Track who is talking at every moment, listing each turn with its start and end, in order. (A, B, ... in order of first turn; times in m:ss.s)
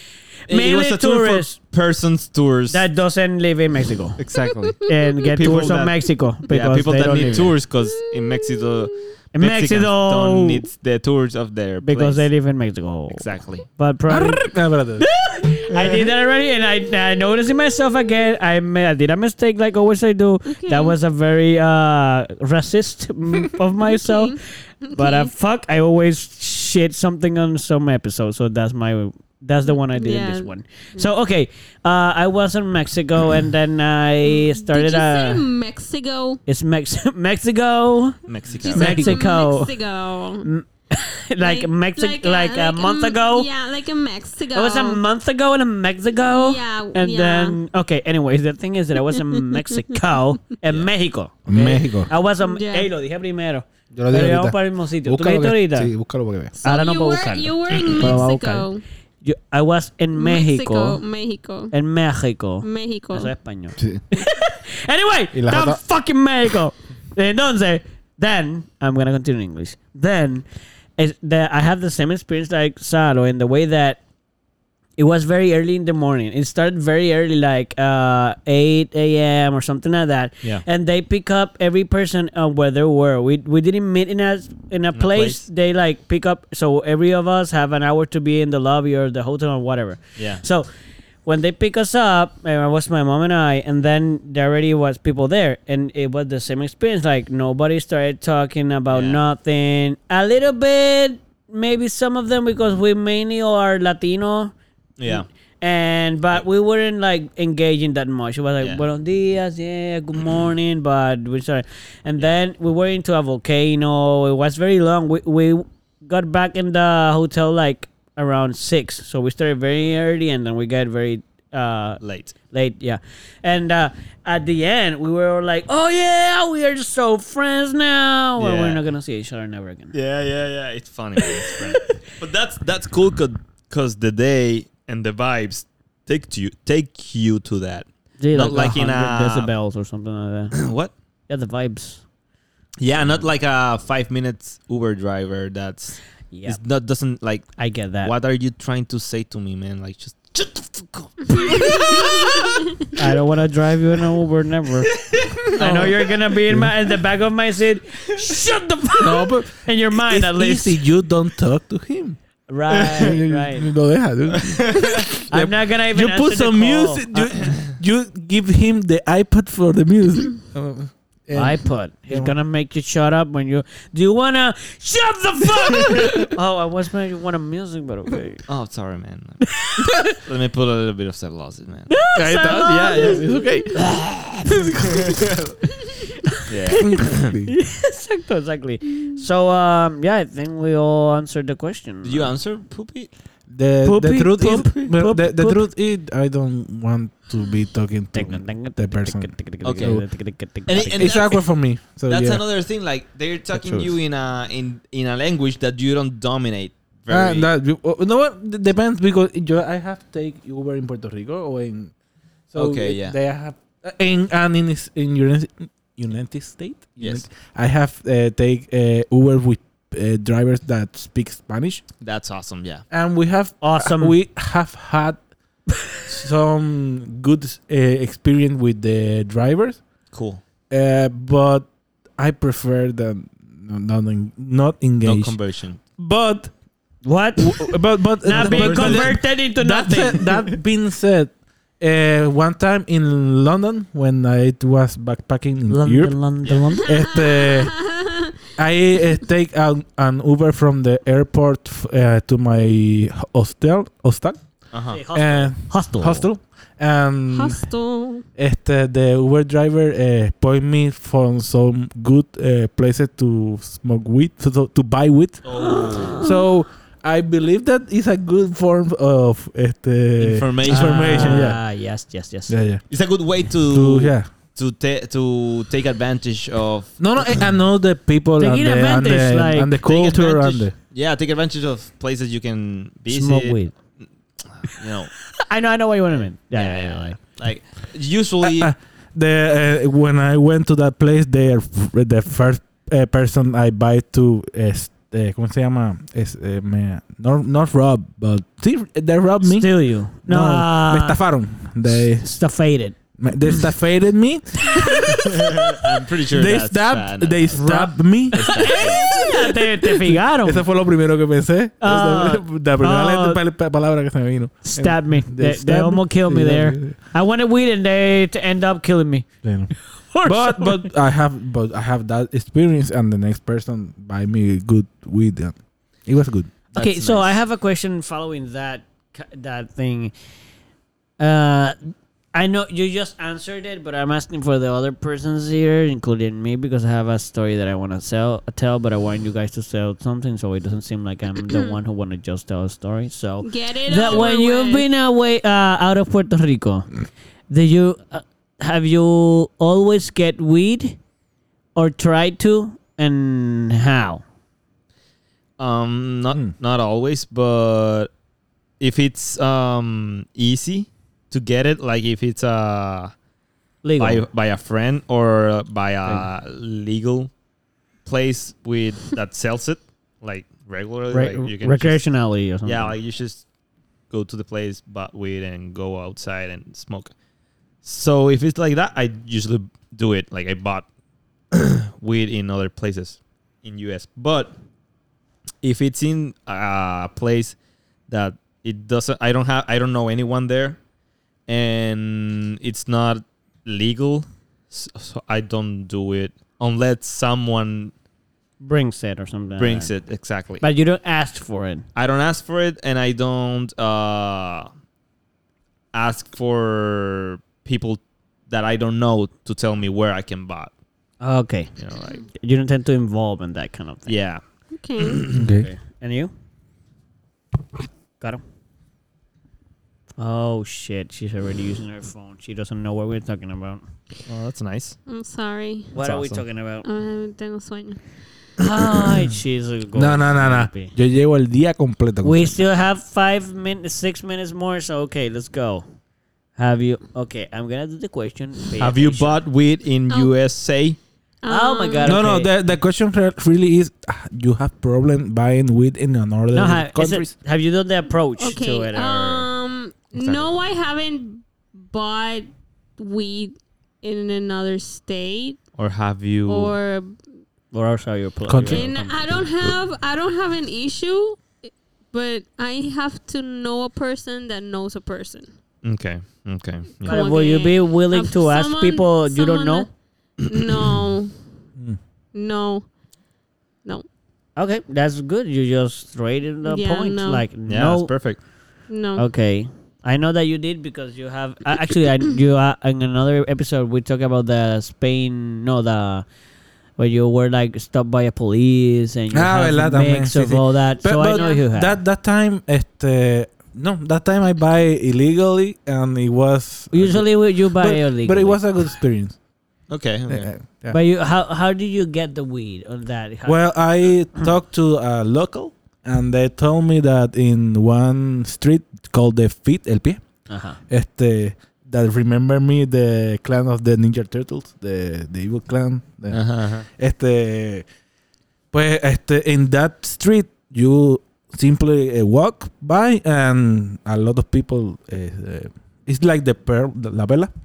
0:00.5-0:01.6 A
0:00.5-0:02.8 B
0:02.7-0:04.2 A
0:04.2-0:04.8 B
0:04.8-0:07.6 A
0:05.3-0:12.3 B
0:08.1-0:08.6 C
0:09.3-0:10.6 A
0:11.8-0:35.4 A
0:13.1-0:13.7 B
0:14.1-0:15.1 D
0:15.7-0:16.1 B
0:20.5-0:21.0 C
0:23.8-0:25.3 C
0:29.9-0:31.1 C
0:34.2-0:36.4 C
0:36.5-0:39.8 A
0:38.3-0:39.1 B
0:38.7-0:40.5 C
0:38.7-0:39.1 D
0:40.4-0:43.5 A
0:41.4-0:45.0 C
0:44.6-0:55.9 A
0:46.3-0:47.6 C
0:49.1-0:49.8 C
0:50.6-0:50.9 B
0:51.5-0:52.1 D
0:52.4-0:52.9 C
0:54.0-0:56.5 D
0:56.6-0:58.8 C
0:56.6-0:58.7 A
0:57.7-0:58.1 B
0:59.2-1:01.0 A
1:00.2-1:01.7 C
1:01.7-1:14.0 A
1:02.6-1:03.3 C
1:03.8-1:04.0 D
1:05.3-1:05.8 D
1:15.0-1:30.7 A
1:24.9-1:25.4 B
1:30.2-1:30.4 B
1:31.2-1:44.5 A
1:38.9-1:39.2 B
1:45.0-1:45.3 B
1:45.1-2:09.9 A
1:48.6-1:48.8 B
2:02.0-2:02.4 B
2:08.4-2:08.8 B
2:09.9-2:19.5 B
2:11.4-2:12.0 A
2:18.2-2:20.6 A
2:20.5-2:20.9 B
2:21.3-2:22.0 A
2:22.8-2:32.7 B
2:26.3-2:26.6 A
2:27.6-2:28.1 A
2:31.4-2:32.2 C
2:33.0-2:35.0 A
2:35.0-2:36.1 B
2:35.5-2:40.8 A
2:35.6-2:36.8 D
2:39.0-2:42.2 D
2:42.5-2:43.7 A
2:42.7-2:43.2 B
2:42.8-2:52.3 D
2:44.3-2:45.1 B
2:45.3-2:47.4 A
2:51.3-2:58.5 A
2:58.5-2:59.5 B
2:59.6-2:59.9 A
3:00.1-3:01.9 B
3:01.9-3:03.6 A
3:02.1-3:03.9 D
3:03.8-3:05.5 B
3:04.5-3:05.3 D
3:06.5-3:07.4 B
3:06.8-3:07.5 D
3:07.5-3:12.3 A
3:12.0-3:13.1 B
3:13.5-3:20.1 D
3:13.8-3:15.6 A
3:18.1-3:21.3 A
3:19.6-3:20.0 B
3:20.6-3:21.5 B
3:20.7-3:22.4 D
3:22.1-3:27.5 B
3:23.5-3:23.9 D
3:27.1-3:31.9 D
3:32.5-3:41.9 D
3:32.6-3:33.2 B
3:37.0-3:37.3 B
3:42.0-3:42.8 B
3:42.9-3:45.2 D
3:43.6-3:44.2 A
3:46.1-3:49.8 D
3:50.1-3:50.4 B
3:50.7-3:55.4 D
3:55.0-3:55.8 B
3:56.0-3:56.5 D
3:57.0-4:00.4 A
3:57.4-4:06.2 D
3:58.4-3:59.2 B
4:05.7-4:06.9 A
4:06.4-4:06.8 B
4:06.8-4:07.8 D
4:06.9-4:08.3 C
4:08.6-4:17.6 D
4:14.7-4:15.0 B
4:14.9-4:16.3 A
4:17.3-4:18.2 C
4:18.4-4:31.6 D
4:25.4-4:26.2 B
4:25.7-4:26.4 A
4:30.2-4:31.5 B
4:30.7-4:32.6 A
4:32.5-4:32.8 D
4:32.9-4:37.5 B
4:33.4-4:34.3 D
4:37.0-4:40.7 D
4:38.4-4:39.7 A
4:39.8-4:45.1 B
4:43.1-4:43.7 A
4:45.5-4:47.2 A
4:46.1-4:48.7 B
4:48.4-5:02.3 D
4:59.4-5:01.2 A
5:02.2-5:03.0 A
5:03.2-5:05.2 D
5:04.8-5:05.2 A
5:05.2-5:07.7 B
5:06.2-5:17.0 D
5:07.5-5:10.6 A
5:08.3-5:09.1 B
5:11.8-5:13.4 A
5:14.6-5:19.3 A
5:19.4-5:19.7 D
5:19.9-5:20.8 A
5:20.2-5:26.5 D
5:26.7-5:27.4 B
5:26.8-5:30.1 A
5:31.2-5:31.8 A
5:32.3-5:46.9 A
5:41.5-5:41.8 C
5:43.4-5:44.9 C
5:47.5-5:51.0 A
5:51.8-5:54.2 A
5:55.6-5:58.1 B
5:58.8-6:03.1 B
6:03.8-6:04.2 A
6:04.0-6:07.3 B
6:08.0-6:12.0 B
6:11.1-6:13.0 A
6:12.6-6:13.4 B
6:14.1-6:17.1 B
6:17.8-6:20.9 B
6:21.5-6:24.6 B
6:25.6-6:27.6 B
6:28.1-6:30.8 B
6:31.5-6:37.9 B
6:38.6-6:39.9 A
6:39.6-6:40.6 B
6:40.6-6:41.9 A
6:42.0-6:44.7 B
6:45.9-6:50.7 B
6:51.2-6:51.8 A
6:51.8-6:52.2 B
6:52.3-6:54.2 A
6:54.1-6:54.4 B
6:54.7-6:55.3 C
6:55.0-6:55.5 B
6:55.3-6:55.7 D
6:55.4-6:56.3 A
7:00.2-7:03.8 A
7:04.3-7:05.0 B
7:05.1-7:05.9 C
7:05.9-7:06.9 A
7:06.0-7:06.4 B
7:06.8-7:08.0 C
7:08.6-7:10.9 A
7:09.9-7:12.6 D
7:12.2-7:15.8 A
7:16.6-7:19.4 A
7:18.8-7:21.0 B
7:21.4-7:22.2 C
7:21.5-7:22.5 A
7:22.0-7:27.3 D
7:26.5-7:29.5 A
7:28.4-7:35.6 C
7:30.2-7:30.5 B
7:35.8-7:36.8 B
7:36.5-7:37.2 C
7:37.7-7:39.4 A
7:38.5-7:38.9 D
7:38.7-7:45.5 C
7:45.8-7:47.2 B
7:47.0-7:51.4 C
7:47.1-7:49.9 A
7:50.6-7:51.0 B
7:52.3-7:52.9 C
7:54.6-7:58.1 A
7:56.6-7:57.4 C
7:57.7-7:58.4 B
7:58.9-7:59.3 C
7:59.2-8:06.2 A
8:07.0-8:12.0 A
8:09.3-8:19.4 D
8:11.2-8:11.6 C
8:16.9-8:18.6 A
8:19.9-8:20.5 B
8:20.3-8:21.0 D
8:20.9-8:23.7 A
8:23.5-8:37.8 D
8:30.5-8:30.8 A
8:36.3-8:36.9 B
8:38.7-8:47.5 D